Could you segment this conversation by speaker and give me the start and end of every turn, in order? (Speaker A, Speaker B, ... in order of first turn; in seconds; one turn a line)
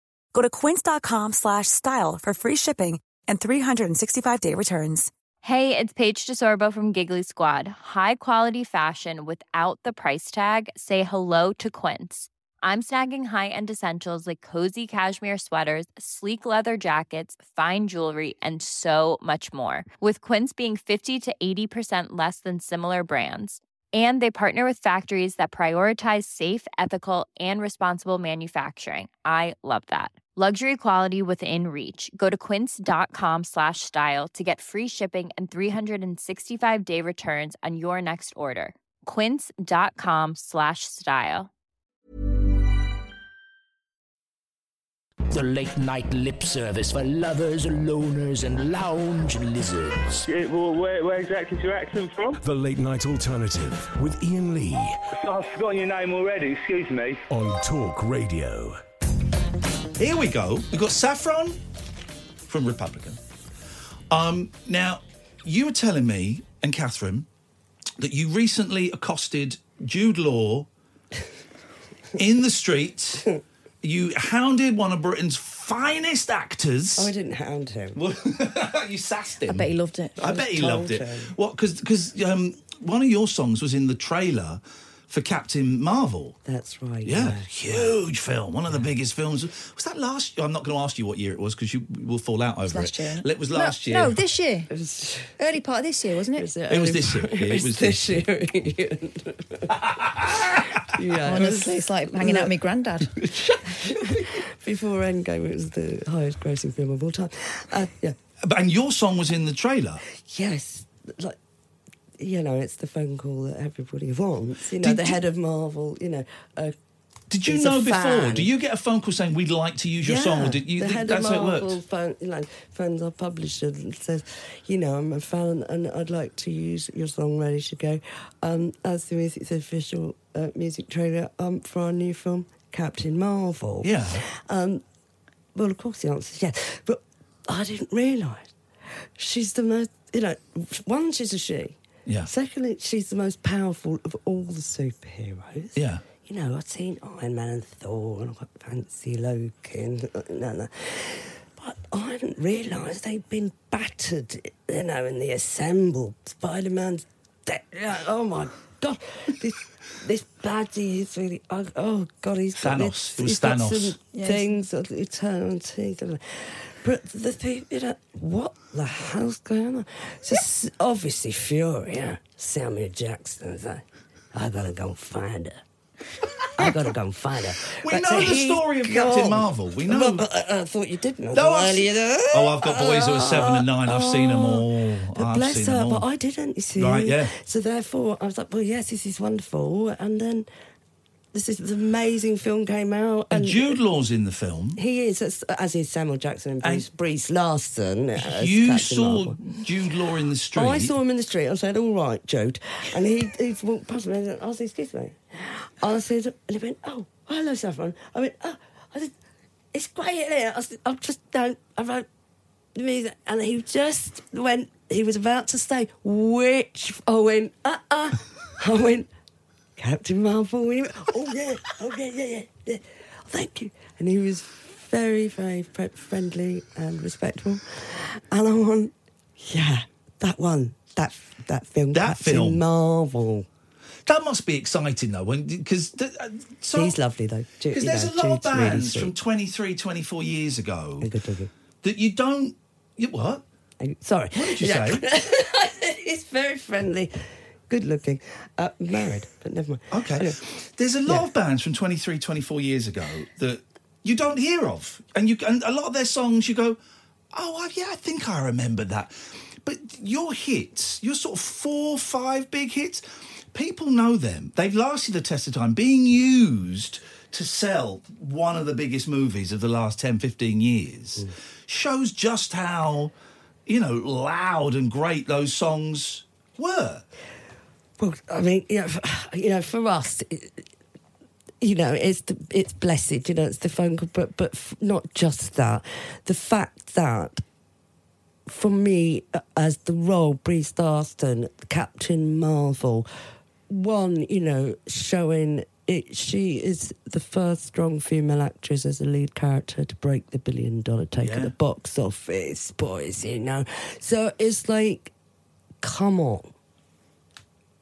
Speaker A: 0.3-5.1
Speaker B: 5.4-41.5
Speaker C: 45.3-50.2
Speaker D: 50.3-52.4
Speaker E: 52.4-55.0
Speaker D: 55.1-57.2
Speaker E: 57.3-58.8
Speaker F: 60.0-61.6
Speaker F: 62.5-63.2
Speaker F: 64.1-67.3
Speaker F: 68.0-70.7
Speaker F: 72.2-73.3
Speaker F: 73.8-77.1
Speaker G: 77.0-78.0
Speaker F: 78.0-86.4
Speaker H: 79.5-80.2
Speaker G: 80.2-81.3
Speaker G: 86.5-88.0
Speaker F: 87.0-94.2
Speaker H: 92.6-94.7
Speaker G: 94.7-95.4
Speaker H: 95.4-96.5
Speaker G: 96.3-99.8
Speaker F: 96.7-98.1
Speaker F: 99.9-100.9
Speaker G: 100.9-102.5
Speaker H: 101.2-103.1
Speaker G: 103.6-108.2
Speaker F: 108.4-110.0
Speaker G: 110.1-111.4
Speaker G: 112.2-116.8
Speaker F: 114.8-115.2
Speaker F: 117.3-121.8
Speaker G: 117.5-118.5
Speaker G: 120.0-134.8
Speaker F: 133.8-134.2
Speaker G: 135.6-138.5
Speaker G: 139.2-175.6
Speaker F: 145.8-146.1
Speaker F: 162.6-164.0
Speaker H: 164.1-164.5
Speaker G: 176.6-190.5
Speaker F: 177.8-180.2
Speaker F: 181.3-186.0
Speaker F: 186.8-187.3
Speaker G: 191.3-193.8
Speaker F: 193.3-194.8
Speaker G: 194.8-199.4
Speaker F: 198.2-200.9
Speaker G: 200.5-209.1
Speaker G: 209.7-212.1
Speaker G: 212.8-219.1
Speaker G: 219.8-233.5
Speaker F: 231.9-232.6
Speaker F: 234.1-237.0
Speaker G: 236.7-239.1
Speaker F: 237.7-241.1
Speaker G: 241.0-241.5
Speaker F: 241.8-243.4
Speaker G: 243.8-247.2
Speaker F: 244.3-245.0
Speaker G: 247.7-250.4
Speaker F: 249.9-256.8
Speaker F: 257.3-273.1
Speaker F: 273.7-277.0
Speaker G: 278.0-280.7
Speaker G: 281.6-287.4
Speaker G: 288.5-293.1
Speaker G: 293.7-305.1
Speaker F: 301.2-301.5
Speaker G: 305.8-306.5